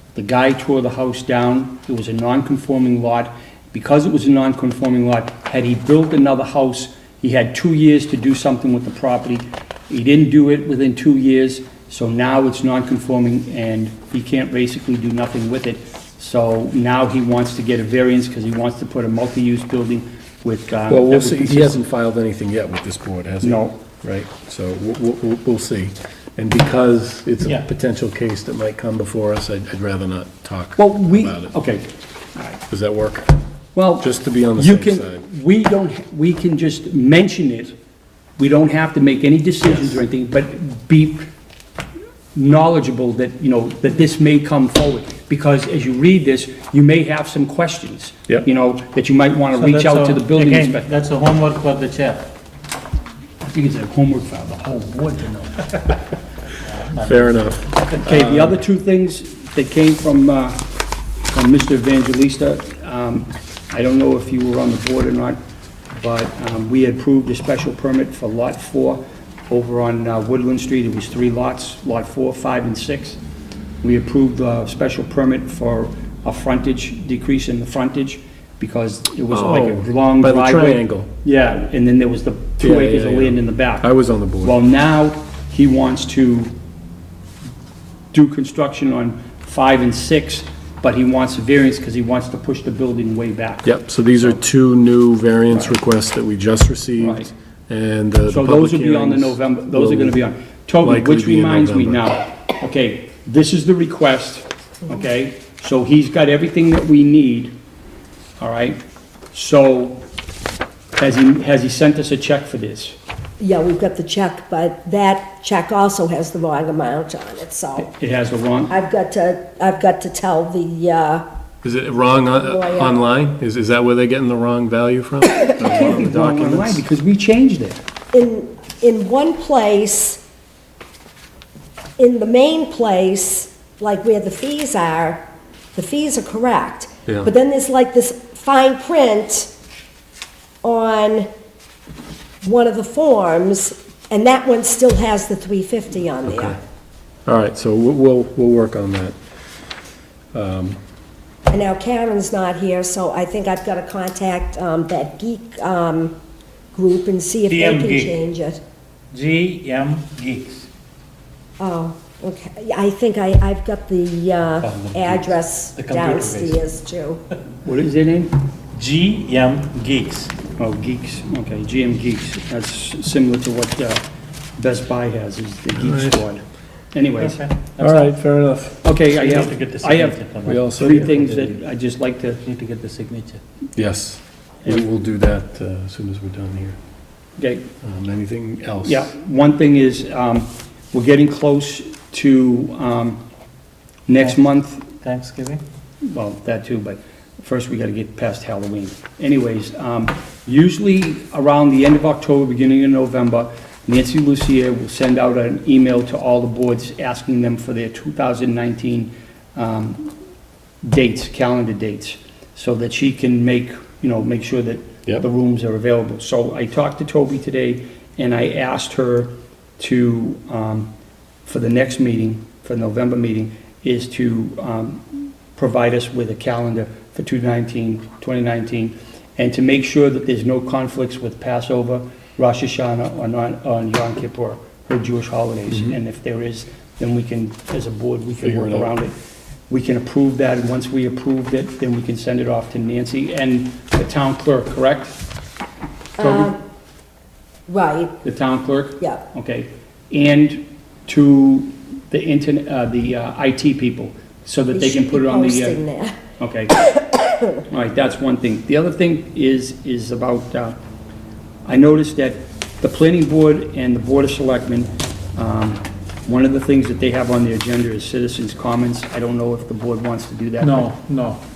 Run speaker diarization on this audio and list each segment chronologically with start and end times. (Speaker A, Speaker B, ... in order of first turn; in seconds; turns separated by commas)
Speaker A: 0.1-21.8, Speaker B: 20.9-31.5, Speaker A: 23.4-23.8, Speaker A: 30.8-32.6, Speaker B: 32.7-33.3, Speaker A: 33.7-37.7, Speaker B: 34.0-35.2, Speaker A: 38.4-41.2, Speaker B: 39.7-40.0, Speaker A: 42.3-50.9, Speaker C: 49.5-52.3, Speaker A: 53.5-55.8, Speaker C: 56.6-57.5, Speaker B: 57.0-58.6, Speaker A: 57.9-60.6, Speaker A: 61.3-65.4, Speaker A: 65.9-73.2, Speaker A: 73.8-83.9, Speaker B: 79.3-81.1, Speaker B: 82.6-84.5, Speaker A: 84.4-86.5, Speaker A: 88.1-93.7, Speaker B: 93.6-100.2, Speaker A: 97.0-97.3, Speaker A: 98.3-107.5, Speaker B: 100.8-102.1, Speaker A: 108.4-108.8, Speaker A: 109.3-110.0, Speaker A: 111.0-113.0, Speaker D: 113.4-117.9, Speaker A: 117.8-118.7, Speaker D: 118.7-121.2, Speaker B: 121.6-126.8, Speaker D: 122.3-123.0, Speaker A: 125.6-127.8, Speaker D: 128.1-130.2, Speaker D: 132.0-139.5, Speaker D: 140.6-141.3, Speaker D: 142.4-146.6, Speaker B: 146.3-146.6, Speaker B: 147.2-149.2, Speaker B: 150.3-150.8, Speaker D: 151.5-156.2, Speaker D: 156.7-158.6, Speaker C: 157.5-158.2, Speaker C: 159.1-160.7, Speaker D: 161.6-167.2, Speaker C: 164.6-166.6, Speaker A: 167.6-168.4, Speaker C: 168.7-170.3, Speaker A: 170.6-174.0, Speaker A: 174.6-177.4, Speaker B: 175.7-176.2, Speaker C: 177.2-178.1, Speaker B: 177.8-178.8, Speaker A: 178.8-180.2, Speaker C: 179.1-181.6, Speaker B: 180.4-181.3, Speaker A: 180.7-182.4, Speaker C: 182.4-183.4, Speaker B: 183.8-186.8, Speaker A: 187.4-187.6, Speaker B: 187.8-189.1, Speaker A: 188.8-193.2, Speaker A: 194.1-194.9, Speaker C: 195.0-195.6, Speaker A: 196.0-210.1, Speaker A: 210.8-220.9, Speaker A: 221.4-239.1, Speaker B: 235.7-235.9, Speaker B: 238.4-238.9, Speaker A: 239.7-245.2, Speaker D: 246.2-246.6, Speaker A: 246.2-246.5, Speaker D: 247.7-248.2, Speaker A: 248.2-255.8, Speaker D: 254.7-256.2, Speaker A: 256.4-260.8, Speaker A: 261.6-270.9, Speaker C: 270.6-271.4